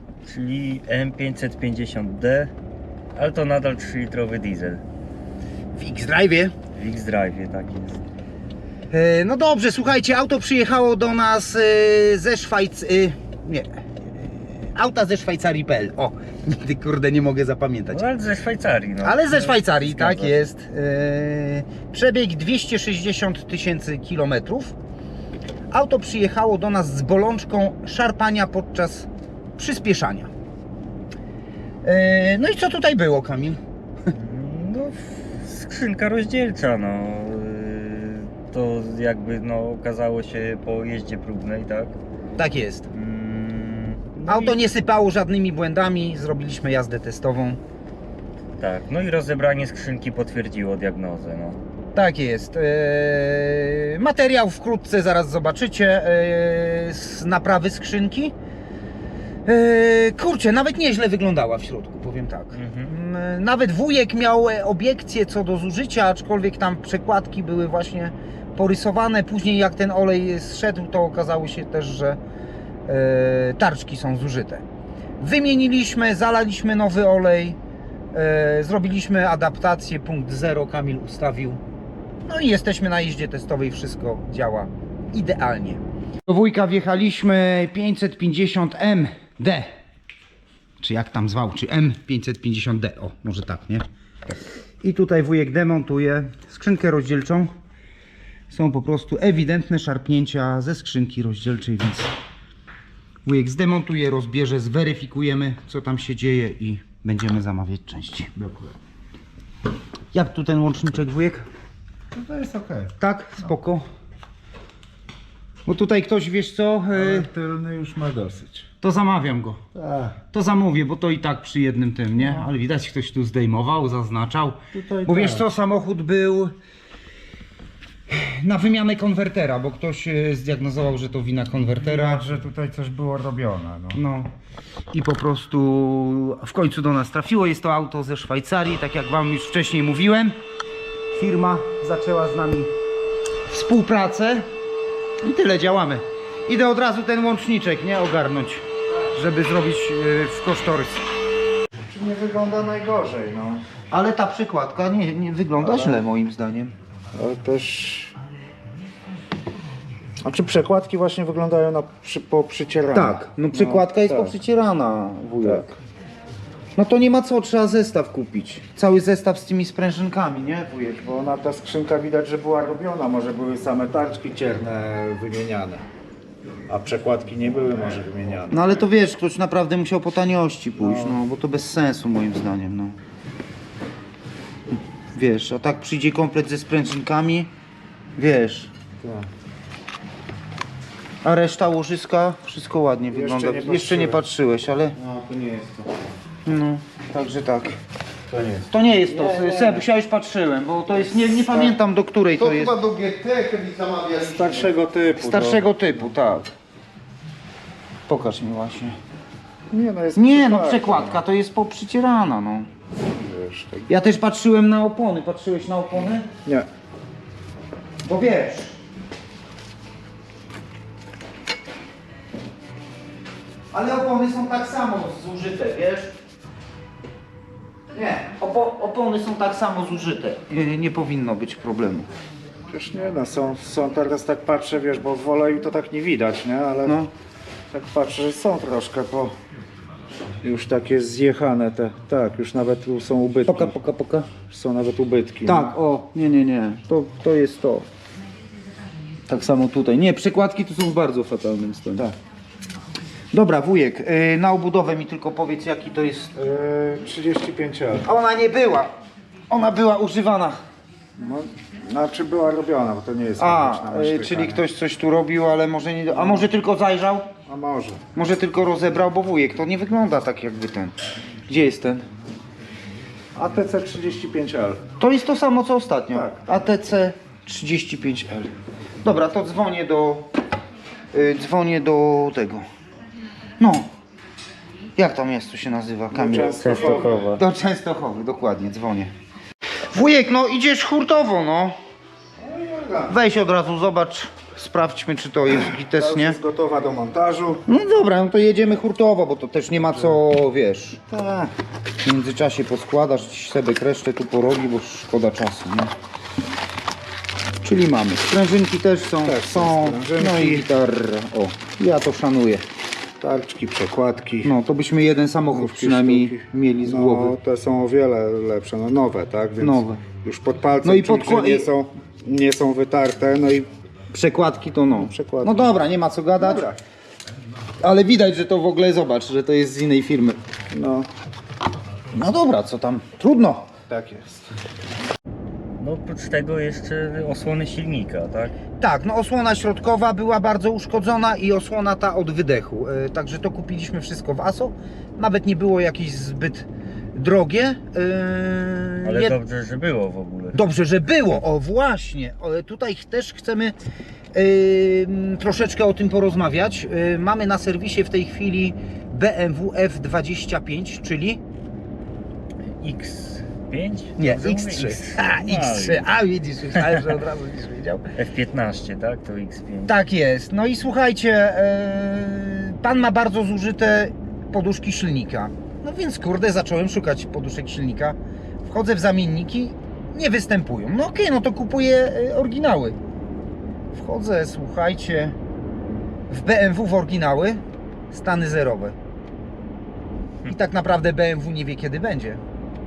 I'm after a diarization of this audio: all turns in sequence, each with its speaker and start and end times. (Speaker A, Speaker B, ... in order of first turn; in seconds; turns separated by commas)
Speaker A: 0.3-2.5, Speaker A: 3.1-4.8, Speaker B: 5.8-6.5, Speaker A: 6.8-8.0, Speaker B: 8.9-18.0, Speaker A: 17.9-20.5, Speaker B: 19.0-24.8, Speaker B: 25.7-30.3, Speaker B: 31.8-33.6, Speaker A: 34.2-42.0, Speaker B: 42.4-42.9, Speaker A: 42.9-44.6, Speaker B: 44.3-47.6, Speaker A: 48.6-51.6, Speaker B: 51.9-58.3, Speaker B: 59.5-72.2, Speaker A: 62.5-62.9, Speaker B: 72.9-74.6, Speaker B: 75.2-77.6, Speaker B: 78.1-81.6, Speaker B: 82.3-89.7, Speaker B: 90.8-93.8, Speaker B: 94.8-97.5, Speaker B: 98.5-102.1, Speaker B: 103.2-108.4, Speaker C: 108.4-108.7, Speaker B: 110.1-111.5, Speaker C: 112.2-112.9, Speaker B: 113.0-113.8, Speaker B: 115.7-117.3, Speaker C: 116.9-118.7, Speaker B: 118.8-119.6, Speaker C: 119.8-120.2, Speaker B: 120.3-126.6, Speaker C: 124.7-125.5, Speaker B: 128.1-132.3, Speaker C: 131.8-134.0, Speaker B: 133.9-134.3, Speaker B: 134.9-140.4, Speaker B: 141.1-142.7, Speaker B: 143.5-144.5, Speaker B: 145.2-151.1, Speaker C: 151.9-153.6, Speaker B: 153.9-156.7, Speaker C: 155.6-156.0, Speaker C: 157.2-158.1, Speaker C: 160.2-164.3, Speaker B: 162.9-165.8, Speaker B: 166.8-170.9, Speaker C: 170.8-175.8, Speaker C: 176.7-178.6, Speaker B: 178.5-183.0, Speaker C: 180.8-181.2, Speaker B: 185.1-187.5, Speaker B: 188.2-188.7, Speaker C: 189.0-189.3, Speaker B: 191.2-195.0, Speaker C: 193.1-194.2, Speaker C: 195.0-195.8, Speaker B: 196.4-197.8, Speaker C: 198.3-199.8, Speaker B: 198.7-202.8, Speaker C: 201.1-201.8, Speaker C: 202.4-205.7, Speaker B: 205.2-206.5, Speaker B: 208.1-209.0, Speaker C: 209.7-211.2, Speaker B: 210.2-212.7, Speaker C: 213.1-213.9, Speaker B: 213.9-216.3, Speaker B: 218.1-218.8, Speaker B: 223.7-226.1, Speaker B: 227.9-232.1, Speaker C: 232.7-237.0, Speaker B: 236.8-237.1, Speaker C: 237.7-239.3, Speaker C: 240.4-243.8, Speaker B: 243.5-244.3, Speaker C: 244.5-245.7, Speaker B: 245.5-247.9, Speaker B: 249.3-252.1, Speaker B: 253.3-256.5, Speaker C: 256.4-258.1, Speaker B: 258.0-258.9, Speaker B: 259.5-260.6, Speaker C: 261.2-264.6, Speaker B: 263.4-267.3, Speaker C: 266.1-266.5, Speaker C: 267.5-268.0, Speaker B: 268.1-270.9, Speaker B: 271.5-272.1, Speaker C: 273.4-274.8, Speaker B: 275.0-278.5, Speaker C: 276.1-276.4, Speaker B: 279.0-280.3, Speaker B: 281.1-282.7, Speaker B: 283.6-283.9, Speaker B: 285.0-289.1, Speaker C: 286.1-287.4, Speaker A: 286.6-287.4, Speaker B: 289.9-291.8, Speaker C: 292.4-293.1, Speaker B: 293.1-296.4, Speaker C: 295.8-297.6, Speaker B: 297.7-301.1, Speaker C: 301.1-301.5, Speaker B: 302.0-305.9, Speaker B: 307.6-312.6, Speaker C: 309.2-310.6, Speaker C: 313.2-314.5, Speaker B: 314.4-317.4, Speaker C: 315.5-323.7, Speaker B: 319.6-320.0, Speaker B: 320.8-321.7, Speaker B: 324.1-326.7, Speaker C: 325.0-325.7, Speaker C: 326.4-326.8, Speaker B: 327.8-330.4, Speaker C: 330.7-331.1, Speaker B: 332.1-333.7, Speaker C: 333.9-334.4, Speaker A: 335.8-338.5, Speaker B: 338.8-349.4, Speaker A: 349.0-350.6, Speaker B: 350.5-353.8, Speaker B: 354.3-361.4, Speaker A: 362.8-366.1, Speaker B: 364.2-368.1, Speaker A: 368.1-369.9, Speaker B: 369.9-383.0, Speaker B: 383.9-385.4, Speaker B: 386.3-389.0, Speaker B: 390.5-392.4